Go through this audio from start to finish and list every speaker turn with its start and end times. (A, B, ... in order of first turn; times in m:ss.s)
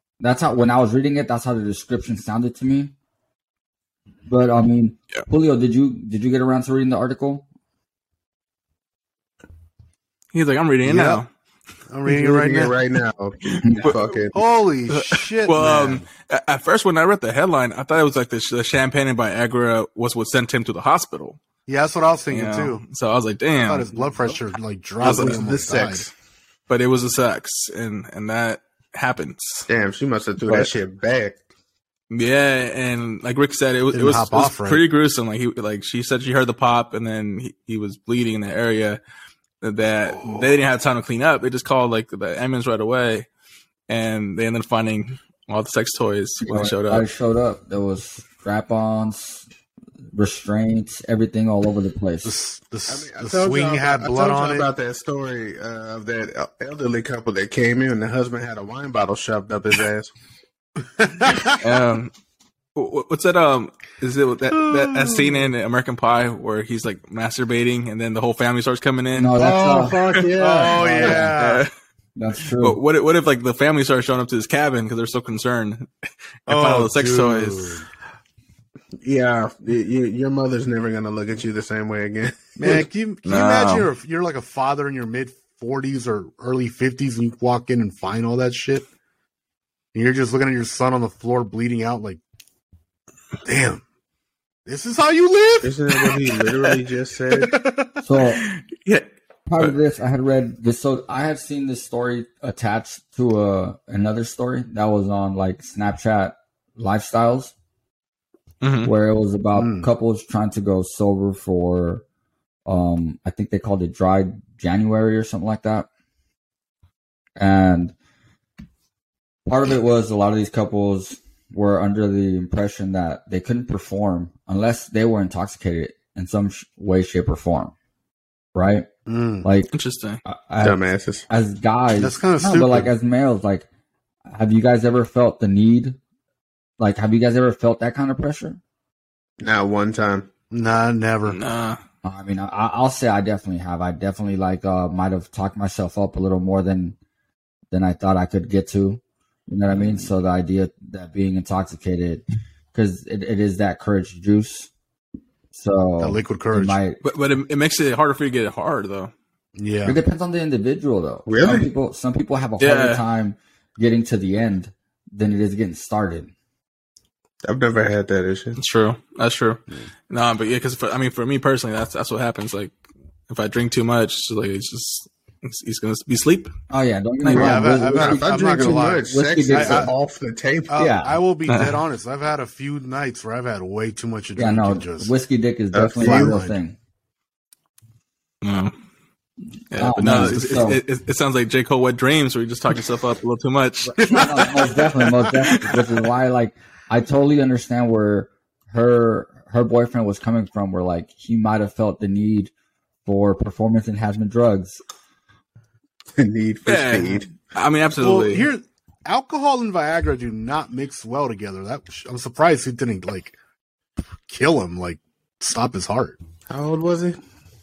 0:00.2-0:02.9 A
0:04.3-0:07.4 A
0:10.3-0:11.3 B
0:10.8-0:11.2 C
0:11.9-0:12.7 C
0:12.0-0:14.4 D
0:13.6-0:14.0 A
0:14.3-0:16.0 C
0:14.9-0:21.4 B
0:21.7-0:22.8 C
0:22.3-0:24.4 B
0:23.6-0:26.0 C
0:25.0-0:26.1 D
0:26.7-0:29.7 B
0:29.7-0:31.4 D
0:32.1-0:39.0 B
0:33.9-0:34.8 C
0:39.6-0:43.3 B
0:43.9-0:47.0 B
0:46.4-0:49.4 A
0:50.1-0:52.3 A
0:52.2-0:54.7 C
0:52.9-1:00.1 D
1:01.0-1:01.5 C
1:01.5-1:02.1 B
1:02.8-1:09.4 B
1:04.6-1:05.3 C
1:09.2-1:10.0 A
1:09.4-1:11.3 D
1:10.4-1:11.6 C
1:10.7-1:11.4 A
1:11.3-1:11.7 B
1:12.2-1:12.8 A
1:12.6-1:15.9 B
1:16.4-1:17.7 B
1:16.5-1:17.9 C
1:19.0-1:22.9 D
1:22.6-1:28.9 C
1:23.2-1:23.9 B
1:29.9-1:32.2 C
1:33.4-1:33.8 C
1:34.6-1:36.1 C
1:35.6-1:37.5 D
1:37.3-1:38.0 C
1:38.0-1:38.5 A
1:38.4-1:39.0 B
1:39.5-1:47.5 A
1:48.6-1:48.9 B
1:48.8-1:52.0 A
1:49.5-1:49.9 C
1:52.6-1:55.9 A
1:57.4-1:57.9 A
1:59.4-2:07.7 A
2:08.5-2:08.9 A
2:09.1-2:09.5 C
2:09.4-2:09.7 A
2:09.7-2:10.2 B
2:10.2-2:13.6 A
2:10.6-2:11.2 D
2:12.0-2:12.9 C
2:14.3-2:16.0 A
2:16.8-2:18.6 A
2:19.4-2:20.3 D
2:20.5-2:21.4 C
2:21.3-2:21.8 B
2:22.0-2:27.0 A
2:27.7-2:32.2 A
2:32.7-2:34.7 A
2:35.5-2:37.0 A
2:36.0-2:36.8 C
2:37.0-2:39.1 B
2:39.6-2:40.0 C
2:39.8-2:46.3 A
2:41.2-2:41.7 D
2:42.6-2:43.0 B
2:47.4-2:48.6 D
2:48.6-2:52.7 B
2:53.3-2:56.5 B
2:56.7-2:59.9 A
2:57.2-2:59.9 C
2:57.3-3:00.8 D
3:00.7-3:05.1 C
3:00.8-3:01.2 A
3:01.5-3:01.8 B
3:04.4-3:06.8 A
3:05.7-3:06.4 D
3:06.0-3:06.6 C
3:08.4-3:08.7 B
3:09.7-3:14.6 B
3:09.7-3:10.8 A
3:13.8-3:22.5 A
3:14.0-3:14.7 C
3:15.3-3:15.8 B
3:23.0-3:24.8 A
3:26.2-3:27.3 D
3:26.6-3:28.5 B
3:28.0-3:33.4 C
3:34.3-3:36.2 C
3:36.5-3:37.2 D